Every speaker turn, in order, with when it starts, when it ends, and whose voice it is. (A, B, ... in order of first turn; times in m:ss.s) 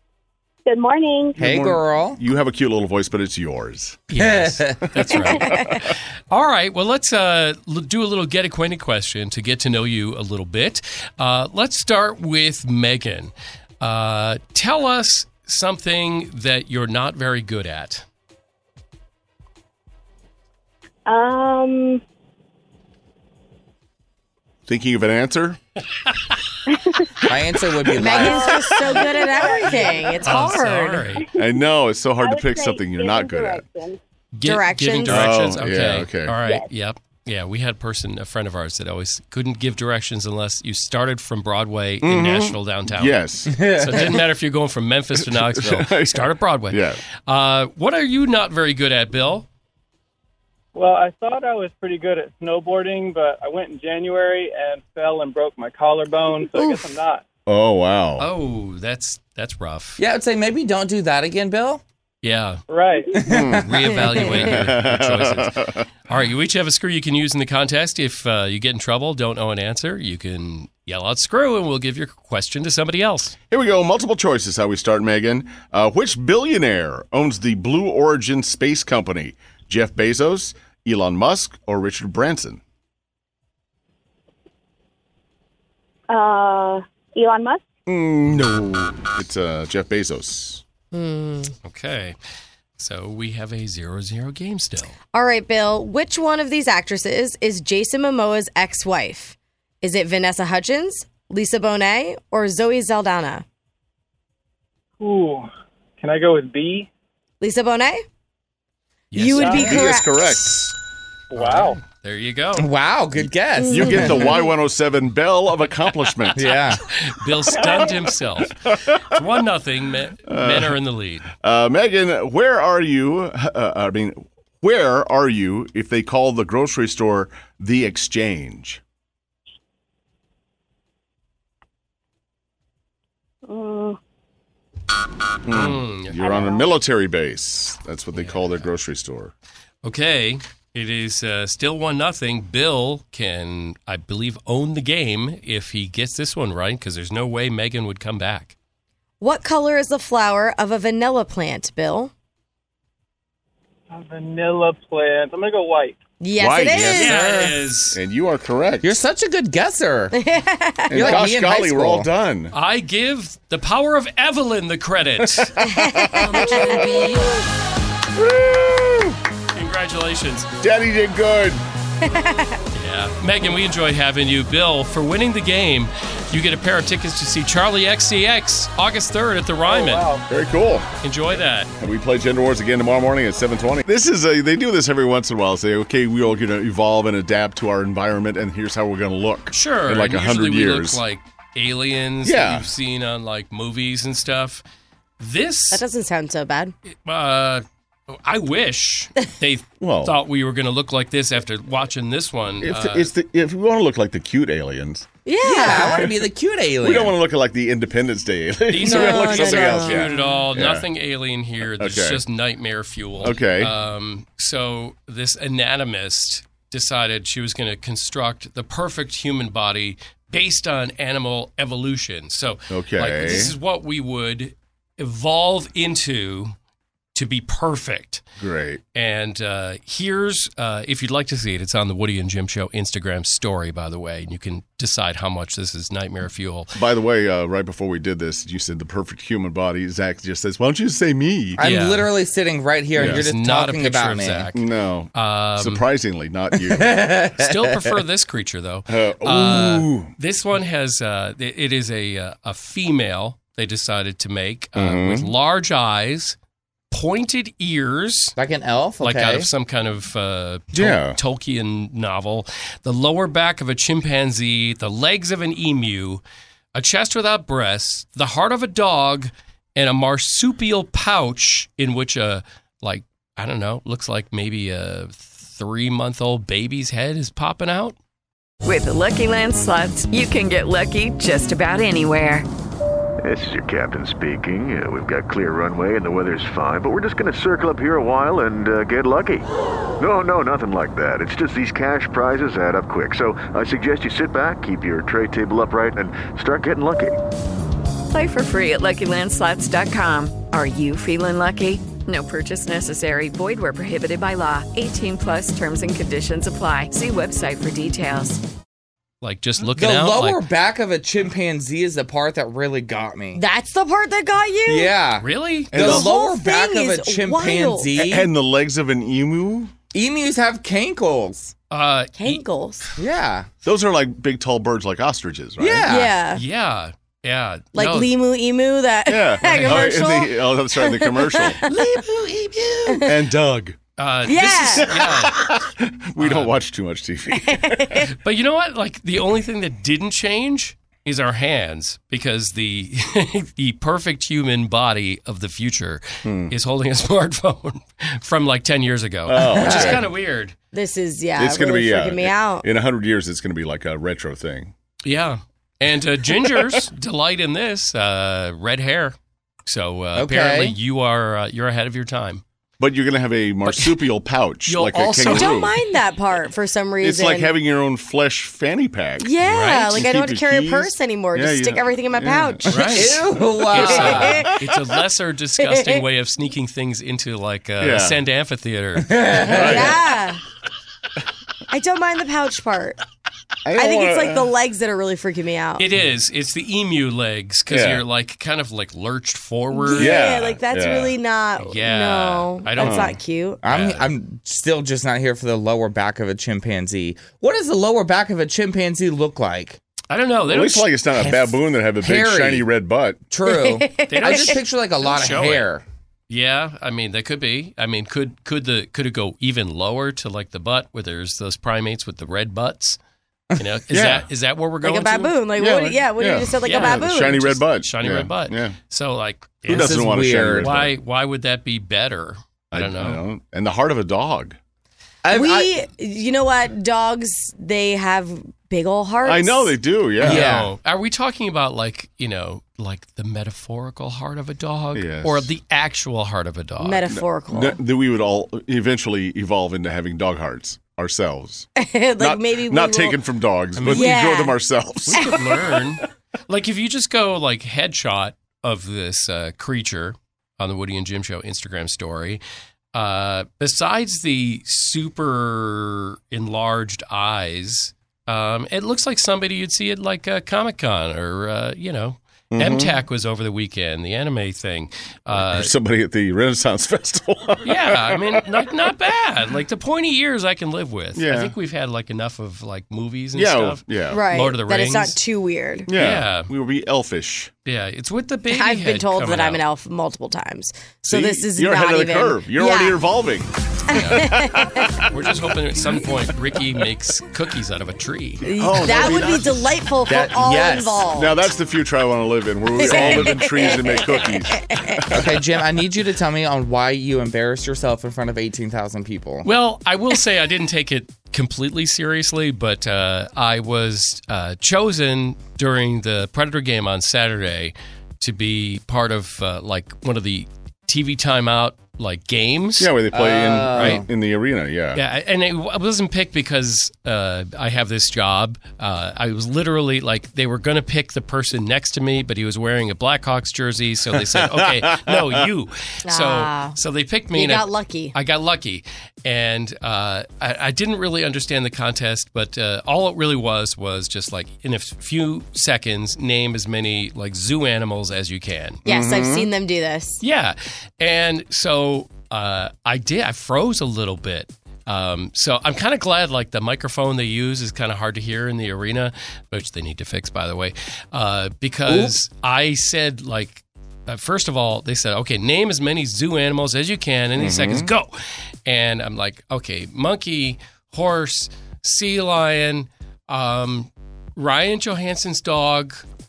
0:01.3-0:04.0 A
0:01.4-0:02.2 B
0:04.1-0:18.0 C
0:04.2-0:04.8 B
0:05.1-0:05.8 A
0:24.7-0:25.6 A
0:27.2-0:28.6 B
0:28.0-0:31.1 D
0:29.3-0:29.7 E
0:30.2-0:31.3 C
0:31.3-0:33.7 A
0:32.2-0:33.4 E
0:34.3-0:49.4 C
0:34.4-0:35.3 D
0:35.0-0:36.4 A
0:42.0-0:44.0 A
0:43.5-0:44.1 B
0:45.2-0:47.0 A
0:50.7-0:57.2 F
0:57.5-0:58.3 A
0:58.2-1:00.0 C
1:00.0-1:01.8 B
1:02.2-1:02.6 C
1:02.7-1:03.2 F
1:03.1-1:03.7 B
1:03.2-1:05.9 A
1:03.5-1:13.4 C
1:13.5-1:22.6 A
1:27.9-1:30.6 A
1:30.9-1:31.5 D
1:31.6-1:32.2 C
1:32.8-1:34.9 C
1:35.1-1:43.4 D
1:45.0-1:46.9 F
1:47.4-1:48.0 D
1:49.1-1:49.8 C
1:49.1-1:50.4 D
1:49.4-1:50.7 A
1:49.4-1:49.7 F
1:51.3-1:51.8 F
1:51.3-1:52.7 C
1:52.6-1:54.3 B
1:53.6-1:54.5 D
1:53.7-1:56.4 A
1:56.4-1:56.8 B
1:56.5-2:01.3 C
1:57.5-1:57.9 A
1:58.5-1:59.2 A
2:00.3-2:00.8 A
2:01.3-2:08.8 A
2:13.5-2:13.8 E
2:15.4-2:19.3 A
2:15.5-2:16.3 C
2:18.1-2:18.6 C
2:19.8-2:28.5 C
2:29.2-2:32.1 D
2:33.9-2:36.0 F
2:36.2-2:37.3 D
2:36.4-2:39.0 A
2:36.9-2:38.0 C
2:37.1-2:37.5 B
2:38.8-2:40.2 B
2:40.1-2:41.2 D
2:40.9-2:42.5 A
2:40.9-2:42.1 B
2:42.5-2:45.6 C
2:45.3-2:47.3 A
2:45.6-2:47.0 D
2:48.1-2:49.2 A
2:49.5-2:50.5 C
2:50.6-2:51.6 A
2:52.0-2:52.6 D
2:52.7-3:00.1 C
2:59.7-3:00.2 F
3:00.3-3:00.9 A
3:01.0-3:01.7 C
3:01.8-3:11.0 A
3:09.5-3:14.6 C
3:12.2-3:12.7 A
3:15.2-3:15.8 C
3:15.7-3:16.7 D
3:17.0-3:23.1 C
3:19.8-3:20.2 A
3:22.6-3:25.1 A
3:25.2-3:26.1 D
3:25.4-3:27.2 B
3:25.7-3:26.1 A
3:26.8-3:30.9 A
3:28.7-3:46.5 C
3:28.8-3:30.3 D
3:31.7-3:32.2 A
3:33.2-3:33.7 A
3:42.7-3:43.5 A
3:47.1-3:48.2 C
3:48.4-3:48.8 A
3:48.9-3:56.7 C
3:56.8-4:01.6 A
4:01.6-4:04.5 B
4:01.6-4:02.1 C
4:03.0-4:03.2 A
4:03.0-4:05.8 C
4:04.5-4:07.1 A
4:06.7-4:07.9 B
4:07.4-4:16.4 C
4:08.9-4:10.1 A
4:14.8-4:15.3 A
4:16.9-4:18.3 C
4:18.4-4:19.5 B
4:19.0-4:26.2 C
4:20.7-4:21.2 A
4:26.7-4:38.0 C
4:38.6-4:42.5 G
4:43.2-4:49.5 H
4:50.0-4:57.2 H
4:58.1-5:08.4 G
5:09.2-5:10.4 C
5:09.7-5:13.4 B
5:13.3-5:14.9 D
5:14.7-5:18.3 B
5:15.2-5:15.7 C
5:15.7-5:16.1 A
5:15.7-5:18.0 D
5:18.0-5:19.7 A
5:19.9-5:21.5 B
5:21.7-5:22.4 C
5:22.2-5:22.9 D
5:23.0-5:23.5 B
5:23.6-5:25.9 A
5:25.6-5:26.1 B
5:25.8-5:26.4 D
5:26.3-5:28.1 C
5:27.7-5:32.0 D
5:29.1-5:32.1 A
5:29.4-5:30.0 C
5:32.8-5:33.8 A
5:32.8-5:33.1 D
5:34.0-5:35.4 C
5:34.2-5:34.9 D
5:34.8-5:38.1 A
5:36.2-5:36.5 C
5:37.4-5:38.1 D
5:38.2-5:50.5 C
5:46.2-5:46.5 A
5:49.2-5:50.1 A
5:49.6-5:49.9 B
5:50.7-5:52.7 D
5:51.4-5:54.7 A
5:55.0-6:02.4 C
5:56.4-5:56.8 A
6:00.1-6:00.7 B
6:02.8-6:05.7 A
6:03.7-6:04.0 C
6:04.7-6:05.6 C
6:05.2-6:07.5 D
6:07.0-6:09.3 A
6:09.2-6:13.0 D
6:09.4-6:10.1 C
6:09.9-6:13.0 A
6:12.7-6:13.2 C
6:12.8-6:14.4 B
6:13.7-6:19.9 C
6:13.7-6:14.5 D
6:15.6-6:16.0 D
6:17.8-6:18.2 A
6:19.0-6:19.7 B
6:19.4-6:20.0 A
6:19.5-6:20.4 D
6:21.7-6:23.0 D
6:23.6-6:24.5 A
6:23.8-6:25.8 D
6:25.8-6:30.3 C
6:27.7-6:28.0 A
6:29.7-6:33.6 D
6:29.9-6:31.2 A
6:31.6-6:34.1 C
6:32.8-6:33.2 A
6:33.6-6:39.8 B
6:40.1-6:41.0 C
6:40.5-6:43.2 A
6:41.2-6:42.7 B
6:43.3-6:45.8 B
6:43.4-6:44.6 D
6:44.1-6:45.7 C
6:46.3-6:53.0 C
6:53.6-6:55.4 C
6:53.9-6:54.3 A
6:54.8-6:57.4 D
6:55.6-6:58.8 A
6:56.6-7:00.0 C
6:59.7-7:00.9 A
6:59.7-7:00.7 B
7:00.6-7:03.2 C
7:02.7-7:04.6 A
7:05.2-7:05.7 B
7:05.3-7:09.7 D
7:09.2-7:10.6 A
7:10.2-7:17.0 C
7:10.2-7:10.7 B
7:14.9-7:15.5 A
7:16.8-7:17.8 D
7:17.1-7:21.7 A
7:21.8-7:23.2 D
7:22.2-7:25.8 A
7:23.8-7:24.0 B
7:23.8-7:24.6 D
7:25.1-7:32.4 C
7:25.1-7:25.4 D
7:32.9-7:45.7 C
7:42.5-7:43.0 A
7:45.3-7:48.7 A
7:47.6-7:55.2 C
7:51.1-7:51.5 A
7:53.3-7:54.2 A
7:54.1-7:55.9 D
7:55.9-7:57.5 A
7:55.9-7:56.5 C
7:57.6-7:59.6 C
7:58.5-8:03.0 D
8:01.0-8:05.2 A
8:03.9-8:05.0 D
8:03.9-8:04.3 C
8:05.1-8:09.1 C
8:08.4-8:11.4 D
8:08.5-8:09.7 A
8:10.0-8:11.0 B
8:11.1-8:15.2 A
8:12.7-8:15.1 D
8:15.1-8:19.5 B
8:19.4-8:32.9 C
8:32.8-8:35.0 A
8:33.1-8:34.0 B
8:33.8-8:34.0 C
8:34.9-8:58.8 C
8:44.1-8:45.5 A
8:46.0-8:46.8 D
8:47.3-8:48.1 D
8:58.8-9:00.2 D
8:58.8-8:59.5 A
9:00.2-9:18.1 C
9:11.9-9:12.1 B
9:17.4-9:17.9 A
9:18.6-9:26.0 C